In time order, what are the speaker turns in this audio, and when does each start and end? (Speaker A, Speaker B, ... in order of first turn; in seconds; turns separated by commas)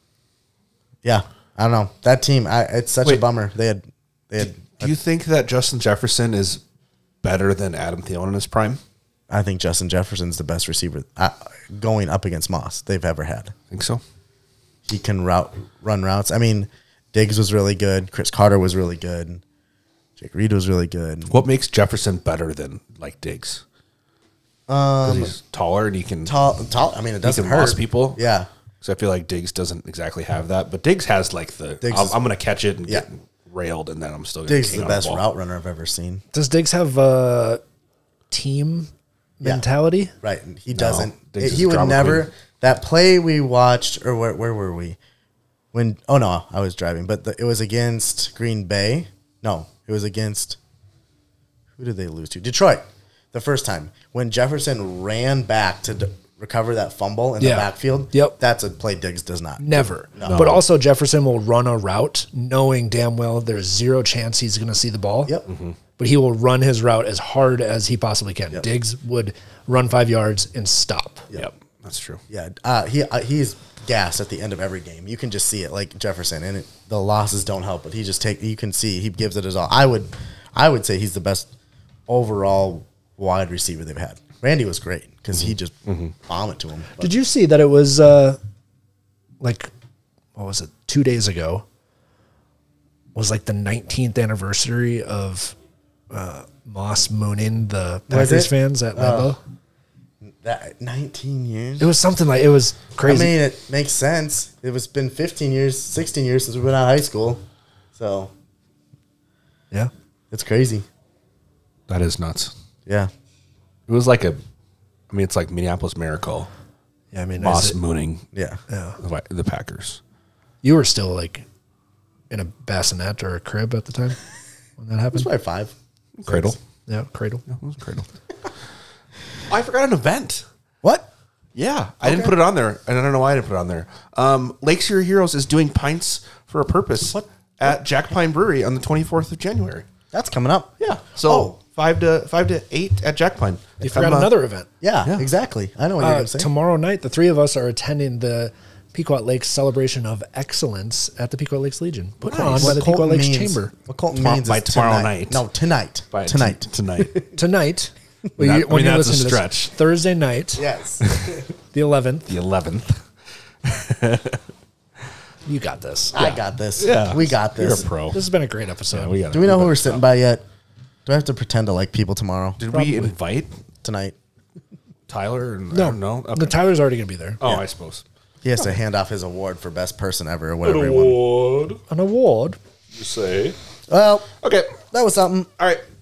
Speaker A: 1.0-4.9, Speaker B: 4.4-6.6, Speaker B: 7.2-8.8, Speaker A: 9.3-13.5, Speaker B: 13.7-14.0, Speaker A: 14.8-19.4, Speaker A: 20.2-21.3, Speaker B: 21.3-23.6, Speaker A: 24.7-25.3, Speaker B: 25.0-26.4, Speaker A: 26.2-28.5, Speaker B: 27.2-28.2, Speaker B: 28.8-35.2, Speaker A: 31.8-32.1, Speaker A: 34.5-36.2, Speaker C: 36.3-37.6, Speaker C: 38.3-40.1, Speaker A: 40.2-45.0, Speaker B: 40.7-42.3, Speaker A: 45.7-50.6, Speaker A: 51.8-60.4, Speaker C: 57.4-58.4, Speaker C: 59.6-65.3, Speaker B: 60.2-60.6, Speaker B: 65.5-65.8, Speaker C: 66.0-71.3, Speaker B: 71.3-72.2, Speaker A: 72.3-81.5, Speaker A: 82.1-87.1, Speaker B: 85.4-86.1, Speaker C: 87.0-88.4, Speaker C: 89.4-89.7, Speaker C: 90.3-91.6, Speaker C: 93.1-95.5, Speaker C: 96.1-99.4, Speaker A: 98.1-99.3, Speaker A: 100.2-101.9, Speaker C: 101.8-103.3, Speaker A: 103.0-107.4, Speaker A: 107.9-108.3, Speaker A: 110.3-110.8, Speaker B: 111.9-112.5, Speaker A: 112.8-113.1, Speaker B: 113.9-114.4, Speaker B: 115.1-116.5, Speaker C: 117.1-117.8, Speaker B: 117.4-118.2, Speaker A: 118.3-118.6, Speaker C: 118.7-119.0, Speaker B: 119.0-120.0, Speaker C: 120.6-121.5, Speaker C: 122.3-124.2, Speaker C: 124.8-125.3, Speaker A: 125.1-125.7, Speaker B: 126.2-126.6, Speaker A: 126.3-126.6, Speaker C: 126.9-127.4, Speaker B: 127.5-128.1, Speaker B: 129.5-130.4, Speaker A: 130.8-131.1, Speaker B: 131.5-139.8, Speaker A: 132.0-132.3, Speaker A: 137.1-137.7, Speaker A: 140.1-141.5, Speaker B: 140.8-144.3, Speaker C: 143.8-144.7, Speaker A: 144.8-146.5, Speaker C: 146.0-153.7, Speaker B: 152.2-152.8, Speaker A: 152.4-157.3, Speaker B: 154.2-155.4, Speaker B: 156.1-157.2, Speaker C: 157.3-160.7, Speaker B: 158.4-159.7, Speaker A: 160.6-161.4, Speaker B: 161.0-161.4, Speaker C: 161.7-162.3, Speaker B: 162.3-163.0, Speaker B: 163.6-164.4, Speaker C: 165.4-166.4, Speaker A: 166.1-167.9, Speaker B: 166.8-168.2, Speaker C: 168.1-169.1, Speaker B: 168.9-170.0, Speaker A: 169.3-170.4, Speaker A: 171.1-172.6, Speaker B: 172.6-173.5, Speaker C: 172.7-173.1, Speaker A: 173.8-174.2, Speaker B: 175.1-176.6, Speaker C: 175.7-177.4, Speaker B: 177.4-178.0, Speaker A: 178.4-181.2, Speaker B: 180.6-181.8, Speaker C: 181.9-182.6, Speaker B: 182.9-183.6, Speaker A: 183.9-184.3, Speaker B: 184.4-184.8, Speaker A: 184.8-185.5